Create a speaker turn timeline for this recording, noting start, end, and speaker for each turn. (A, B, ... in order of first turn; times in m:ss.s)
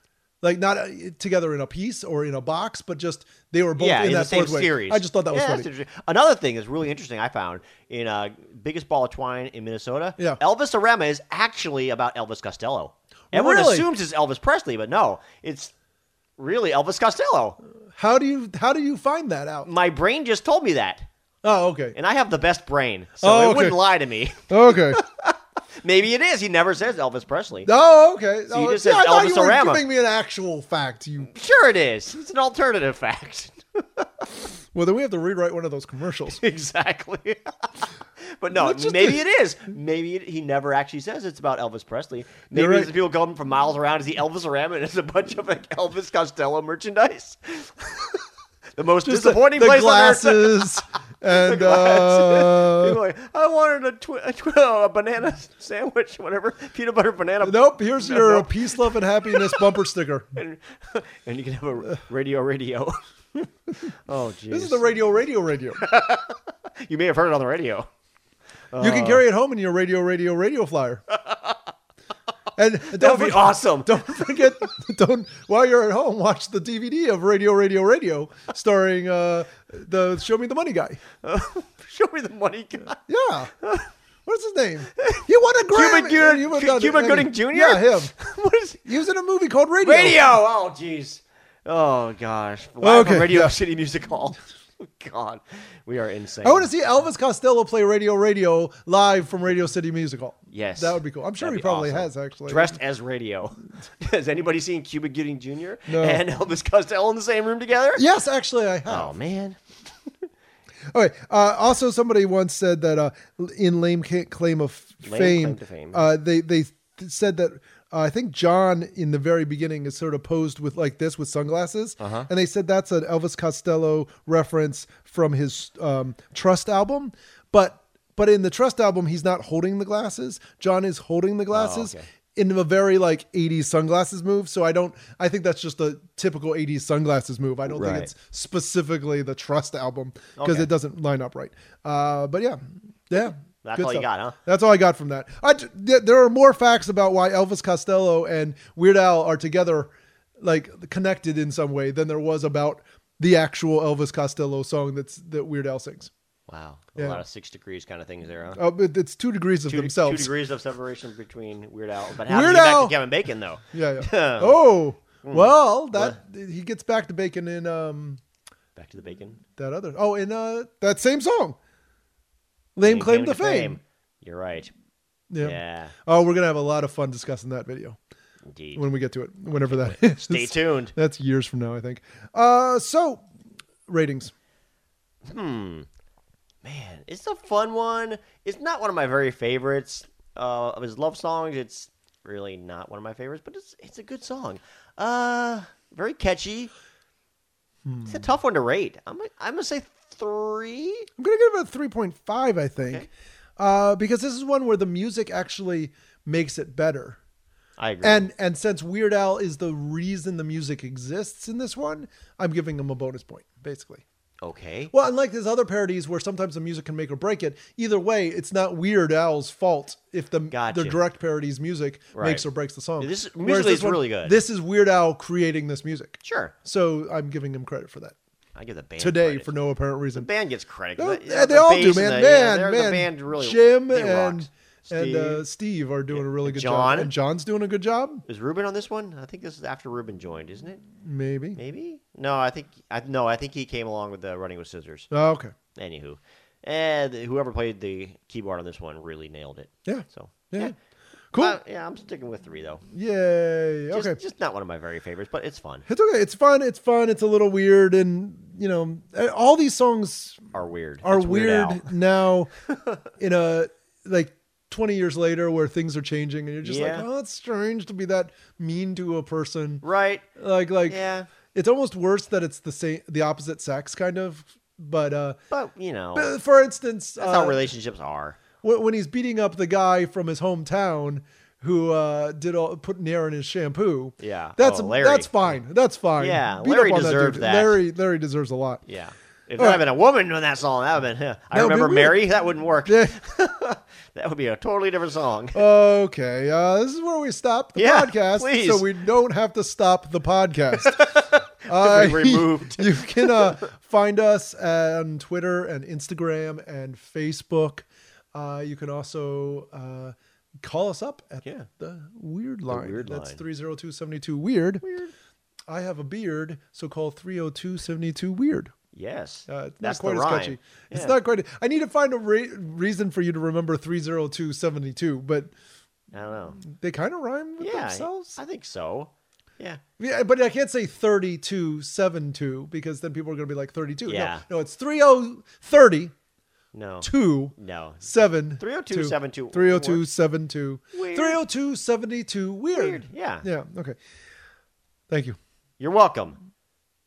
0:00.4-0:05.7 A
0:03.8-0:15.7 B
0:13.3-0:13.9 A
0:16.4-0:17.6 B
0:18.0-0:19.7 A
0:19.6-0:21.1 B
0:21.4-0:22.0 A
0:21.9-0:27.7 B
0:23.2-0:23.8 A
0:24.5-0:25.0 A
0:27.6-0:31.3 A
0:28.5-0:29.8 B
0:31.3-0:34.0 B
0:34.7-0:36.4 A
0:36.3-0:37.9 B
0:38.4-0:48.2 B
0:38.5-0:39.2 A
0:42.5-0:42.9 A
0:48.8-0:58.8 B
0:49.0-0:53.0 A
0:57.4-1:00.3 A
0:59.3-0:59.7 B
1:00.3-1:03.0 B
1:03.8-1:05.0 B
1:04.5-1:05.8 A
1:05.8-1:07.9 B
1:08.7-1:09.2 B
1:08.8-1:11.0 A
1:11.2-1:11.6 B
1:12.6-1:21.0 A
1:12.9-1:14.5 B
1:21.2-1:23.0 B
1:23.1-1:23.5 A
1:23.6-1:23.9 B
1:24.2-1:28.1 A
1:25.0-1:28.8 B
1:28.8-1:30.2 A
1:29.8-1:36.7 B
1:32.8-1:33.5 A
1:36.4-1:42.7 A
1:40.5-1:48.0 B
1:45.9-1:46.2 A
1:47.9-1:49.1 A
1:48.9-1:49.6 B
1:50.9-2:36.1 A
1:55.0-1:56.0 B
2:02.0-2:02.3 B
2:11.5-2:12.0 B
2:17.7-2:18.1 B
2:20.4-2:20.7 B
2:23.6-2:24.4 B
2:36.5-2:38.6 B
2:37.0-2:37.2 A
2:38.6-2:40.3 A
2:39.6-2:44.6 B
2:42.3-2:43.0 A
2:43.7-2:48.2 A
2:45.2-2:46.2 B
2:48.8-2:49.4 B
2:49.6-2:51.6 A
2:52.8-2:53.8 A
2:52.8-2:54.7 B
2:55.3-2:58.0 A
2:55.4-2:55.9 B
2:58.5-2:58.8 B
2:58.7-3:03.3 A
2:59.6-3:00.9 B
3:03.9-3:04.3 A
3:05.2-3:05.9 B
3:06.6-3:16.7 B
3:17.8-3:18.2 A
3:18.1-3:21.1 B
3:21.2-3:27.2 A
3:22.8-3:23.1 B
3:27.8-3:28.3 B
3:28.0-3:34.0 A
3:34.4-3:34.9 B
3:34.9-3:48.2 A
3:40.5-3:41.0 B
3:42.1-3:42.4 B
3:43.0-3:44.4 B
3:46.2-3:46.5 B
3:48.6-3:49.5 B
3:49.0-3:50.3 A
3:50.1-3:55.4 B
3:51.0-3:58.2 A
3:56.1-3:57.1 B
3:58.2-4:00.8 B
4:01.0-4:01.6 A
4:01.6-4:05.1 B
4:05.1-4:05.5 A
4:05.7-4:10.7 B
4:09.8-4:10.7 A
4:11.3-4:11.6 A
4:11.3-4:12.8 B
4:12.9-4:14.2 A
4:13.9-4:15.8 B
4:15.9-4:20.4 A
4:20.5-4:21.9 B
4:21.0-4:22.5 A
4:23.2-4:29.8 A
4:26.6-4:27.0 B
4:29.8-4:30.2 B
4:30.4-4:31.0 A
4:30.9-4:31.3 B
4:31.5-4:35.4 A
4:35.5-4:36.3 B
4:36.1-4:37.6 A
4:37.2-4:38.4 B
4:38.6-4:48.8 A
4:44.2-4:45.6 B
4:46.2-4:47.8 B
4:48.9-4:55.6 B
4:49.6-4:49.8 A
4:51.5-4:52.2 A
4:52.8-4:53.1 A
4:55.5-5:01.0 A
4:57.8-4:58.9 B
5:00.8-5:03.6 B
5:01.7-5:14.8 A
5:12.7-5:13.4 B
5:14.8-5:15.1 B
5:15.7-5:18.7 A
5:18.9-5:21.2 B
5:19.5-5:25.5 A
5:26.1-5:26.6 B
5:26.6-5:28.4 A
5:27.6-5:29.8 B
5:30.0-5:36.1 A
5:34.0-5:34.4 B
5:36.7-5:40.0 B
5:37.0-5:44.0 A
5:40.9-5:41.4 B
5:42.7-5:43.4 B
5:45.1-5:45.4 A
5:45.8-5:46.4 B